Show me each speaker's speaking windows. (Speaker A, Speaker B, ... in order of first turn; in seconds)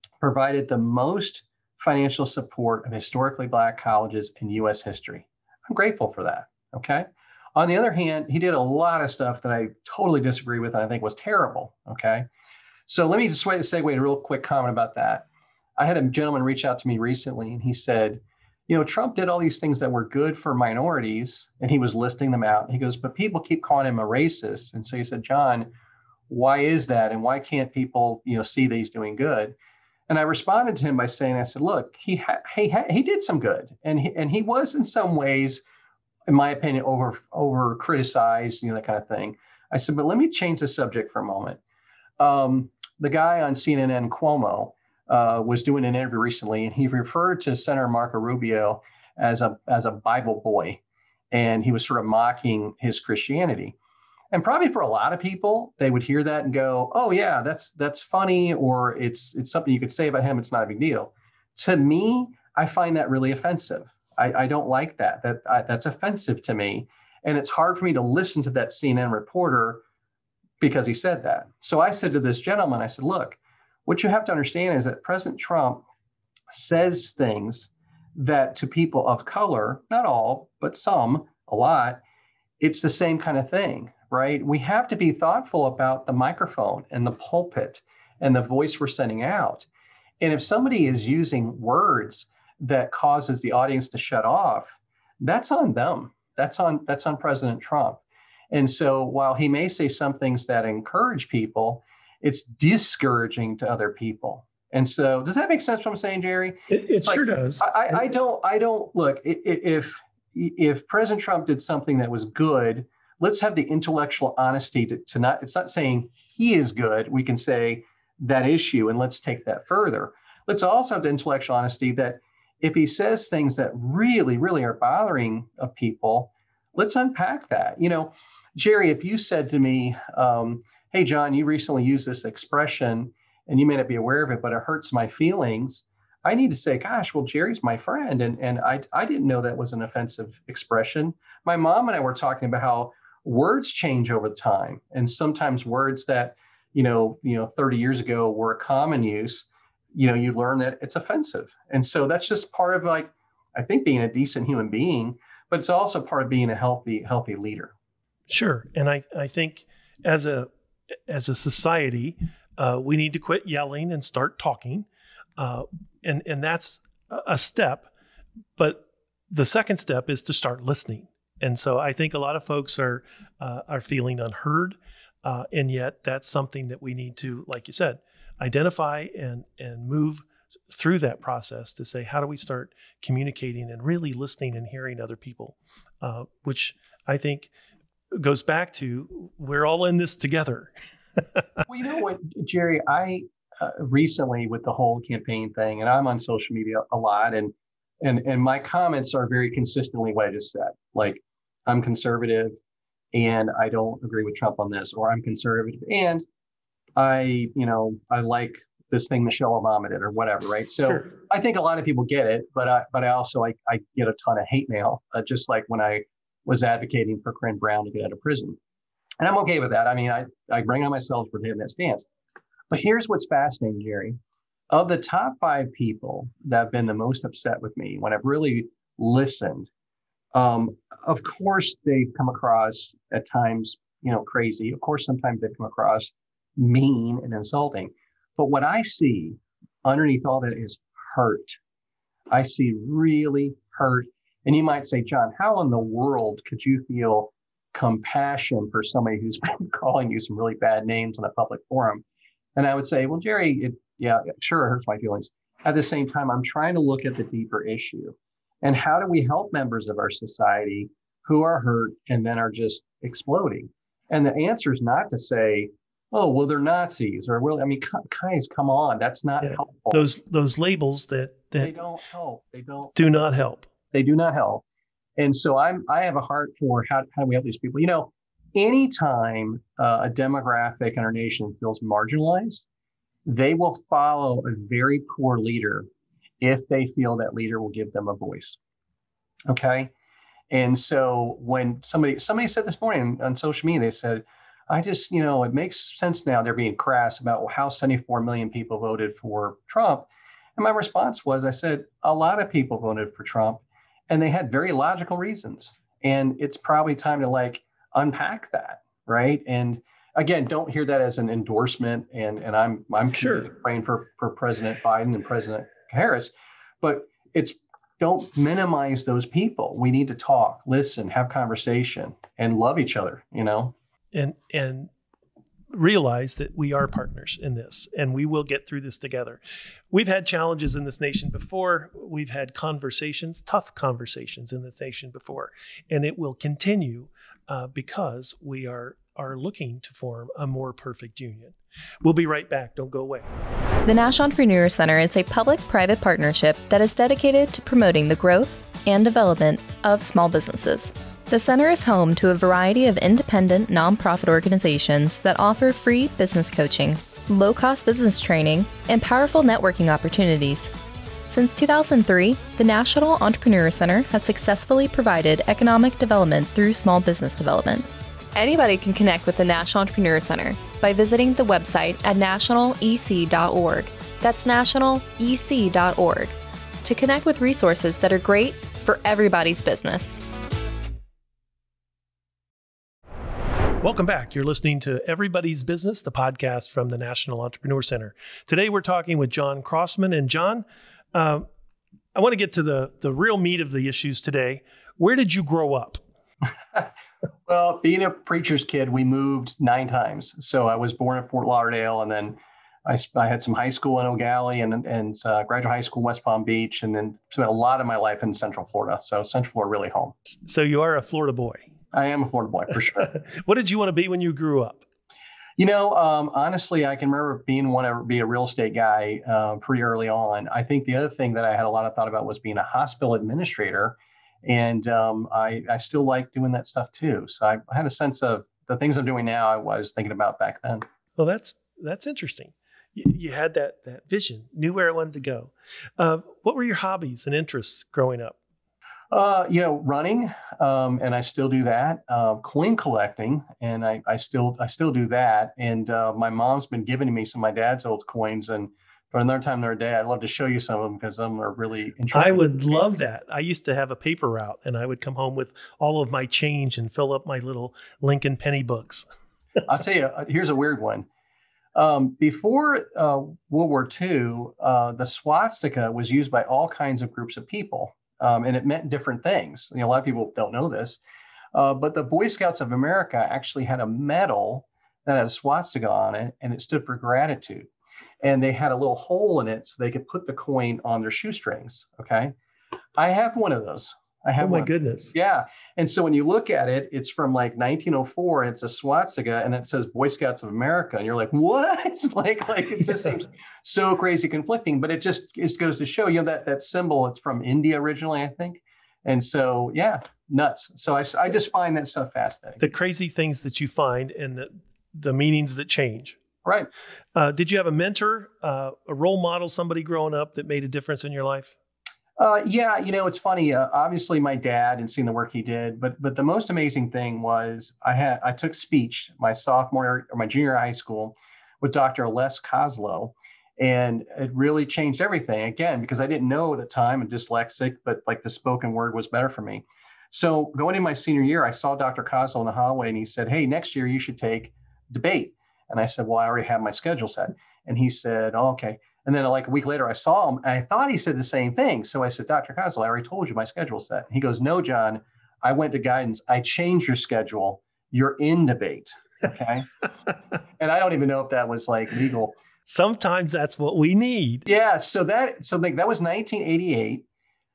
Speaker A: 0.2-12.3, 12.9-15.2, 15.8-25.7, 26.3-29.6, 30.1-35.6, 36.3-41.6, 42.2-50.8, 51.3-53.7, 54.3-69.8, 70.6-75.8, 76.5-82.0, 82.6-89.7, 90.2-157.7, 191.7-202.6, 203.1-206.2, 206.9-218.6, 219.2-222.1, 222.7-224.2, 224.7-229.7, 230.3-241.6, 242.3-252.0, 252.6-270.0, 271.6-272.9, 273.9-274.6, 275.2-282.6, 283.2-285.9, 286.4-288.6, 289.5-289.9, 290.5-316.3, 316.8-323.7, 397.5-410.1, 411.9-413.1, 415.6-430.8, 439.1-452.9, 459.6-461.1, 461.7-471.0, 471.5-477.7, 478.2-482.3, 483.0-502.6, 506.4-506.7, 512.2-549.7, 550.6-552.4, 554.5-557.0
Speaker B: 106.7-108.0, 158.3-160.5, 161.1-167.9, 168.6-187.5, 188.1-191.4, 269.4-271.8, 272.9-273.7, 313.1-313.5, 324.1-324.9, 325.7-343.3, 383.8-391.5, 392.1-396.0, 410.3-411.7, 413.0-414.8, 431.1-438.4, 452.1-459.1, 484.4-485.1, 502.6-506.2, 507.1-511.5, 552.7-554.5
Speaker C: 343.9-360.7, 361.3-380.2